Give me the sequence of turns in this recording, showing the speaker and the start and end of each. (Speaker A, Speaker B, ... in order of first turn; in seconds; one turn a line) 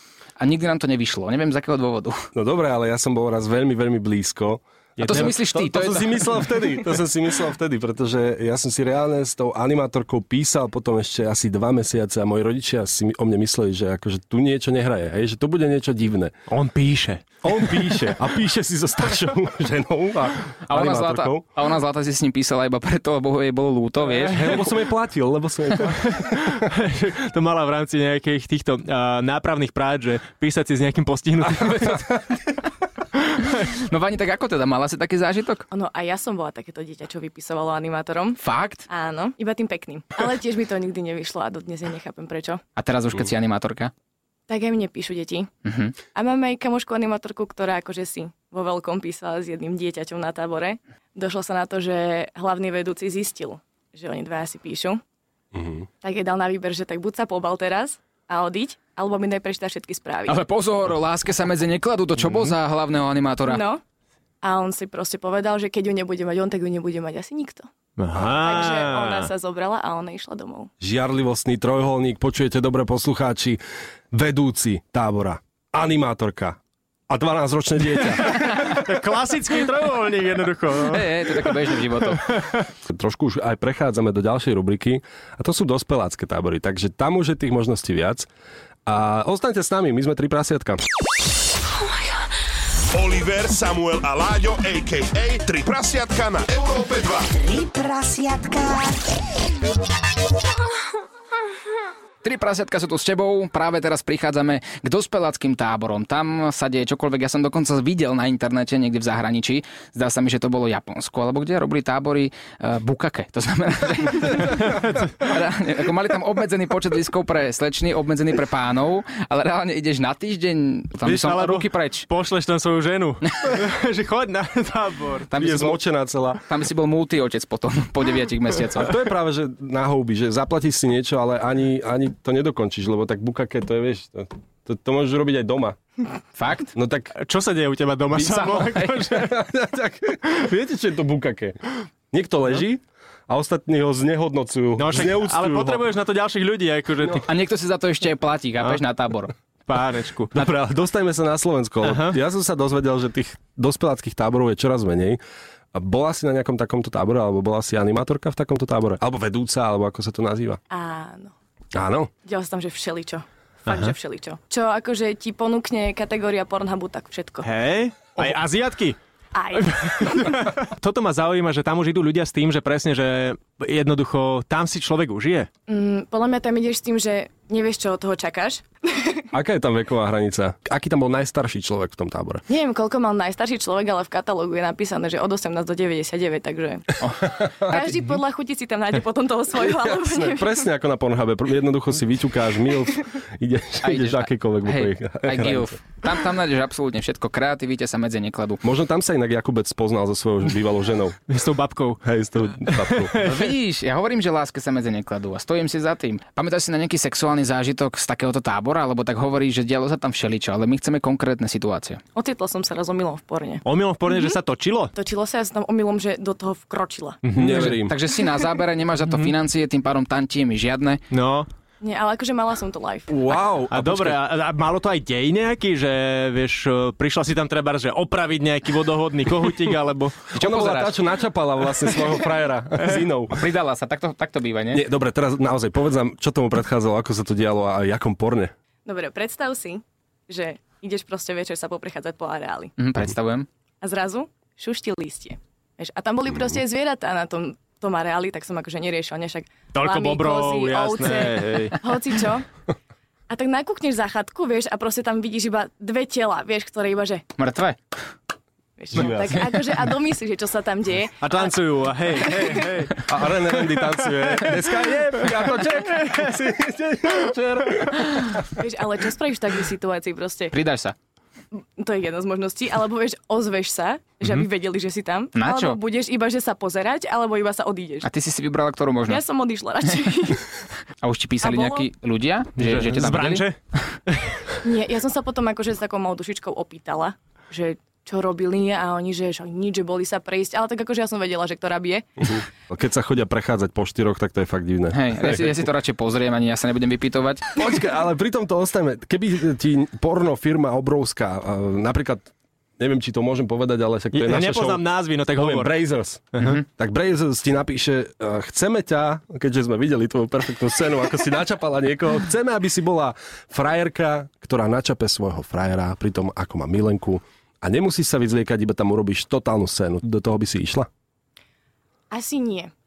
Speaker A: 0.4-2.2
Speaker B: 2.3-16.4
Speaker C: 5.0-5.4
Speaker A: 5.0-6.0
Speaker C: 16.5-18.1
Speaker B: 17.4-21.4
Speaker A: 20.7-24.5
Speaker C: 24.2-24.7
Speaker B: 24.3-26.5
Speaker C: 25.9-32.1
Speaker A: 33.6-35.6
Speaker D: 35.7-42.6
Speaker A: 38.4-38.8
Speaker A: 42.8-43.9
Speaker D: 44.5-45.5
Speaker A: 45.6-46.0
Speaker D: 46.1-55.0
Speaker B: 55.5-55.9
Speaker D: 56.0-60.4
Speaker A: 60.3-63.6
Speaker D: 63.5-63.8
Speaker D: 64.4-67.7
Speaker C: 68.0-69.3
Speaker D: 68.2-70.7
Speaker B: 70.8-73.6
Speaker B: 74.1-76.6
Speaker B: 77.1-78.4
Speaker C: 78.2-82.7
Speaker A: 80.9-82.2
Speaker B: 82.8-88.3
Speaker B: 88.8-90.8
Speaker E: 92.9-97.4
Speaker A: 97.4-99.0
Speaker A: 102.2-122.0
Speaker C: 114.6-115.1
Speaker C: 121.0-125.3
Speaker A: 125.3-125.8
Speaker B: 125.4-126.4
Speaker A: 126.5-128.9
Speaker B: 128.8-135.8
Speaker A: 136.4-136.7
Speaker B: 136.7-137.1
Speaker C: 137.1-139.3
Speaker A: 138.1-139.1
Speaker B: 139.0-141.6
Speaker B: 142.1-145.8
Speaker C: 144.8-147.3
Speaker A: 147.3-149.3
Speaker C: 149.7-150.3
Speaker B: 150.3-155.2
Speaker C: 151.8-152.2
Speaker B: 155.7-160.6
Speaker D: 160.7-161.3
Speaker B: 161.7-162.1
Speaker D: 162.2-167.5
Speaker C: 163.7-163.9
Speaker C: 167.4-169.0
Speaker D: 169.3-170.4
Speaker C: 169.6-175.5
Speaker D: 175.7-179.2
Speaker B: 179.3-182.4
Speaker D: 182.5-187.0
Speaker A: 187.0-187.4
Speaker D: 187.5-190.6
Speaker B: 189.6-195.9
Speaker A: 193.8-198.6
Speaker B: 198.6-201.2
Speaker C: 201.3-202.0
Speaker B: 202.0-203.2
Speaker C: 202.7-203.5
Speaker A: 203.2-212.0
Speaker D: 212.1-213.6
Speaker C: 213.6-214.9
Speaker D: 214.9-217.2
Speaker C: 217.2-217.8
Speaker B: 217.3-217.9
Speaker A: 217.4-221.0
Speaker C: 219.0-219.3
Speaker C: 221.1-221.5
Speaker D: 221.8-223.1
Speaker B: 223.1-224.2
Speaker C: 223.7-231.1
Speaker B: 230.3-233.5
Speaker A: 233.4-234.8
Speaker B: 234.7-238.5
Speaker D: 238.8-242.7
Speaker A: 242.8-243.5
Speaker D: 243.8-252.4
Speaker C: 249.7-251.8
Speaker D: 253.3-257.2
Speaker A: 257.4-257.8
Speaker D: 258.8-261.4
Speaker B: 258.9-259.4
Speaker C: 261.2-266.1
Speaker B: 263.1-268.5
Speaker D: 268.5-270.6
Speaker A: 270.5-270.9
Speaker D: 271.5-278.1
Speaker A: 275.4-275.8
Speaker A: 278.0-279.2
Speaker D: 279.1-280.5
Speaker A: 281.0-283.4
Speaker D: 281.4-281.9
Speaker C: 282.6-284.5
Speaker D: 284.6-292.4
Speaker B: 292.7-295.6
Speaker A: 294.9-297.6
Speaker B: 297.6-320.9
Speaker C: 304.1-305.8
Speaker C: 306.3-306.6
Speaker D: 322.1-322.7